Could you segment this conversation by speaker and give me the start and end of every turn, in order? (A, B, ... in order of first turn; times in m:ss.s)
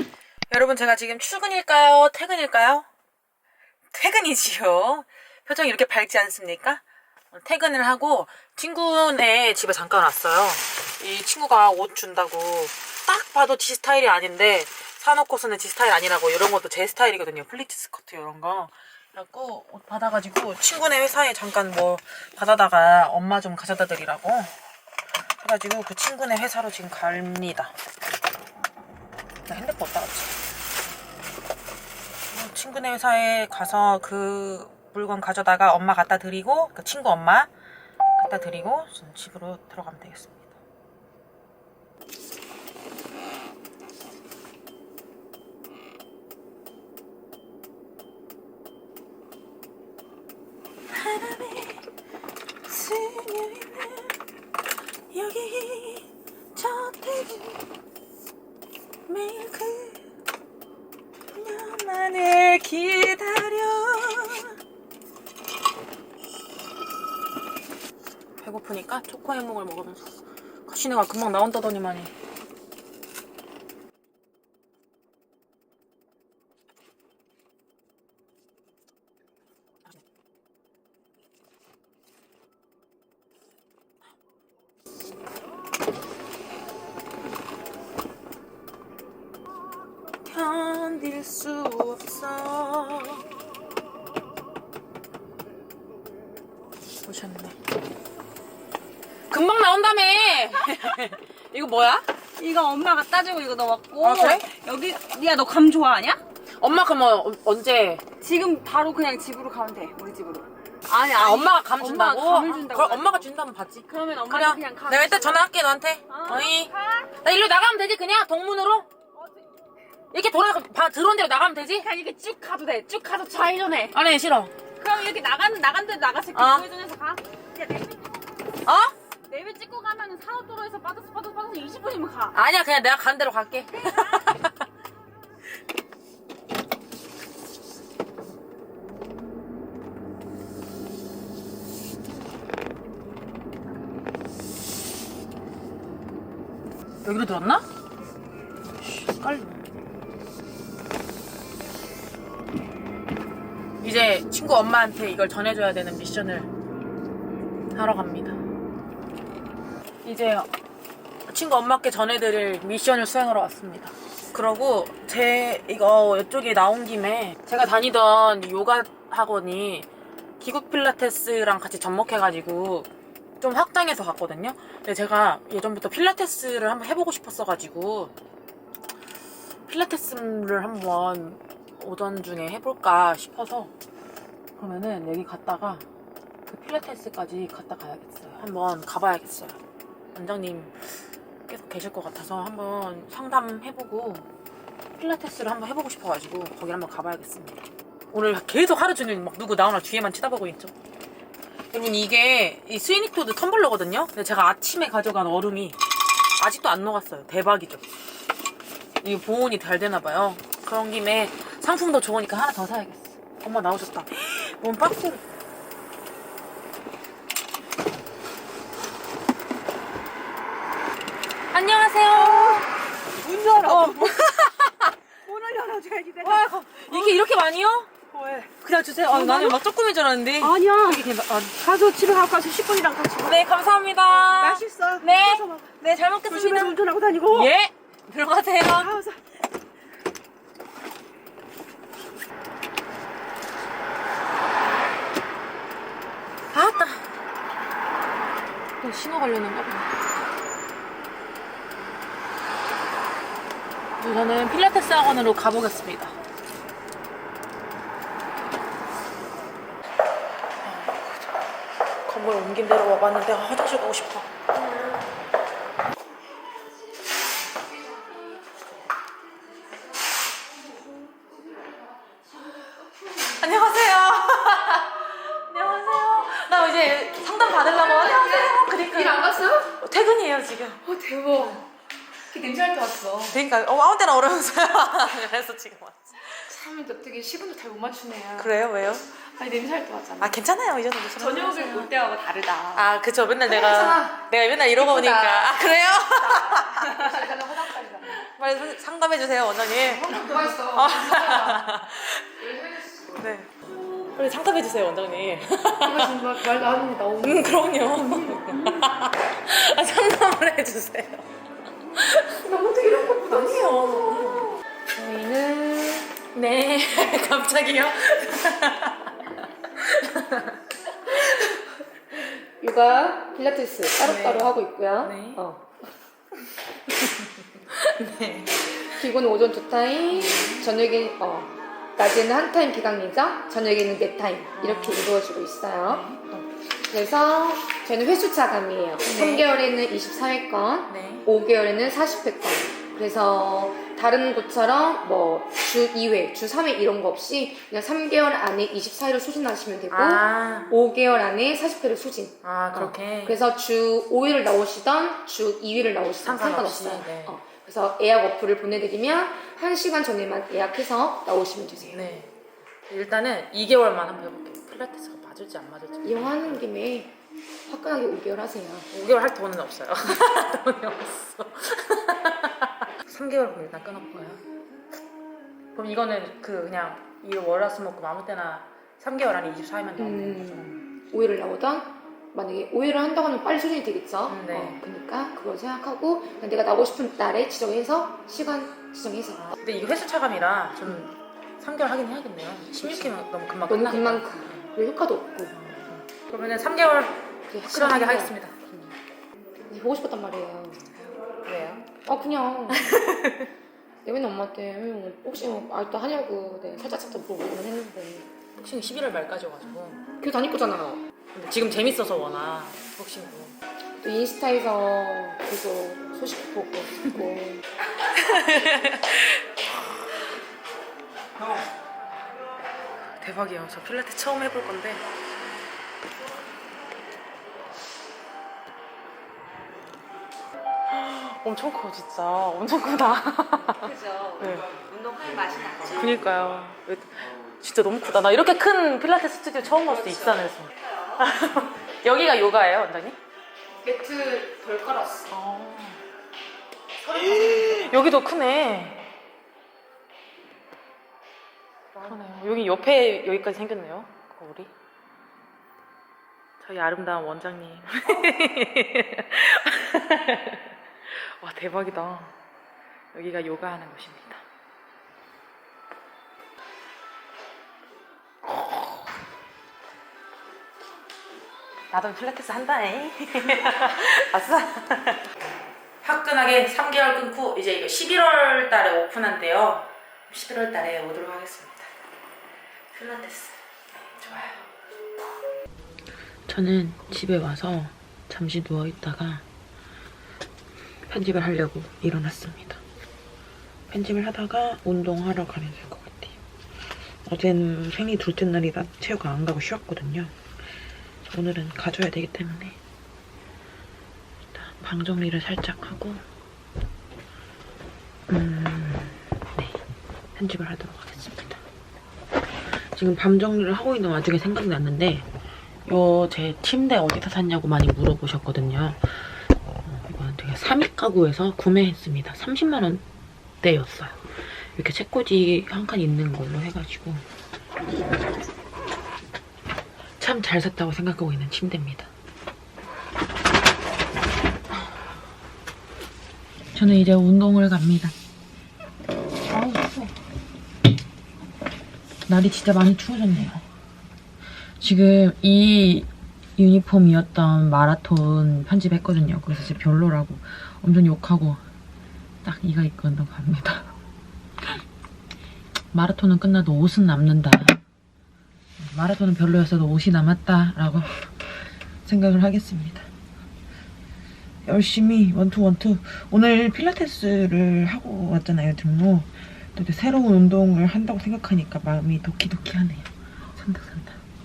0:00.5-0:02.9 A
0:03.9-0:24.5 A
0:25.4-0:27.7 A
0:29.5-0:30.4 A
0:32.3-0:37.5 A
0:38.2-0:40.5 A
0:50.9-0:51.9 A
0:52.6-0:54.2 A
0:55.1-0:57.6 A
0:59.1-1:00.0 A
1:01.3-1:04.6 A
1:08.4-1:12.1 A
1:30.2-1:33.3 A
1:37.0-1:37.6 A
1:39.3-1:42.1 A
1:42.4-1:46.2 B
1:44.0-1:44.5 A
1:46.6-1:48.0 A
1:48.2-1:53.2 B
1:51.1-1:56.7 A
1:53.9-1:55.4 B
1:56.1-1:57.1 B
1:57.2-1:58.9 A
2:00.1-2:01.9 A
2:01.8-2:03.9 B
2:03.9-2:04.5 A
2:04.8-2:08.3 B
2:06.3-2:06.7 A
2:08.6-2:08.9 A
2:09.3-2:12.4 B
2:12.3-2:14.6 A
2:13.8-2:14.3 B
2:27.0-2:27.6 A
2:28.8-2:29.7 A
2:33.8-2:36.5 A
2:37.7-2:38.4 A
2:40.0-2:40.5 A
2:41.3-2:49.9 A
2:50.4-2:52.9 A
2:53.4-2:58.1 A
2:59.7-3:03.7 A
3:04.6-3:05.8 A
3:06.4-3:09.6 A
3:10.1-3:14.3 A
3:15.0-3:20.7 A
3:21.7-3:27.9 A
3:29.0-3:35.2 A
3:41.5-3:42.7 A
3:42.2-3:44.5 B
3:43.6-3:44.9 A
3:45.2-3:47.1 B
3:46.2-3:51.6 A
3:49.1-3:49.6 B
3:50.4-3:53.4 B
3:53.2-3:56.8 A
3:54.2-3:57.5 B
3:57.3-3:58.9 A
3:58.8-3:59.2 B
4:06.5-4:07.1 A
4:08.8-4:09.9 A
4:14.0-4:16.2 A
4:20.6-4:21.5 A
4:22.0-4:24.3 A
4:33.3-4:40.8 A
4:37.8-4:39.7 C
4:40.8-4:41.6 C
4:42.3-4:43.4 C
4:43.3-4:46.5 A
4:46.5-4:48.5 C
4:48.3-4:49.2 A
4:49.2-4:50.4 C
4:50.2-4:51.9 A
4:51.2-4:52.9 C
4:52.7-4:57.5 A
4:53.5-4:54.2 C
4:54.8-4:55.6 C
4:56.2-4:58.2 C
4:58.1-5:02.4 A
4:59.9-5:01.7 C
5:02.4-5:03.3 C
5:03.2-5:03.5 A
5:04.1-5:06.4 A
5:05.7-5:08.9 C
5:07.2-5:11.3 A
5:11.9-5:12.6 A
5:12.4-5:13.8 C
5:13.1-5:19.1 A
5:19.7-5:21.6 A
5:22.6-5:25.7 C
5:24.0-5:25.4 A
5:26.9-5:28.9 A
5:28.9-5:36.1 C
5:30.1-5:30.7 A
5:34.6-5:35.1 A
5:35.8-5:36.5 A
5:36.9-6:02.0 C
5:39.0-5:39.5 A
5:40.9-5:41.3 A
5:49.9-5:50.7 A
5:52.4-5:53.4 A
5:56.2-5:57.4 A
6:01.9-6:02.3 A
6:02.9-6:06.6 A
6:06.0-6:08.9 C
6:08.9-6:14.4 A
6:15.7-6:20.8 A
6:20.0-6:29.5 C
6:24.3-6:24.8 A
6:29.5-6:34.7 A
6:32.8-6:33.1 C
6:33.7-6:35.5 C
6:35.5-6:38.6 A
6:37.5-6:38.9 C
6:39.7-6:40.9 C
6:41.4-6:42.0 A
6:42.0-6:43.0 C
6:42.7-6:43.5 A
6:44.0-6:48.3 C
6:48.6-6:50.0 A
6:50.2-6:51.0 C
6:51.3-6:53.6 A
6:54.0-6:57.6 C
6:58.1-7:00.0 A
7:03.1-7:05.0 A
7:10.9-7:14.7 A
7:13.8-7:15.9 B
7:15.8-7:23.2 A
7:19.9-7:20.5 B
7:23.8-7:25.3 C
7:25.3-7:26.0 A
7:27.0-7:29.1 A
7:31.9-7:34.7 A
7:36.6-7:42.4 A
7:43.1-7:44.4 A
7:48.4-7:48.9 A
7:51.9-7:55.3 A
7:56.0-8:01.9 A
8:02.9-8:04.7 A
8:06.5-8:09.4 A
8:11.1-8:12.8 A
8:13.9-8:16.4 A
8:17.2-8:20.4 A
8:21.2-8:22.8 A
8:24.5-8:26.2 A
8:28.3-8:29.8 A
8:30.4-8:31.6 A
8:32.7-8:35.3 A
8:35.8-8:43.0 A
8:43.6-8:47.2 A
8:50.2-8:52.1 A
8:56.7-8:58.1 A
8:59.4-9:00.2 A
9:02.3-9:03.6 A
9:04.8-9:11.6 A
9:12.4-9:13.9 A
9:15.9-9:17.8 A
9:18.8-9:23.1 A
9:24.6-9:34.2 A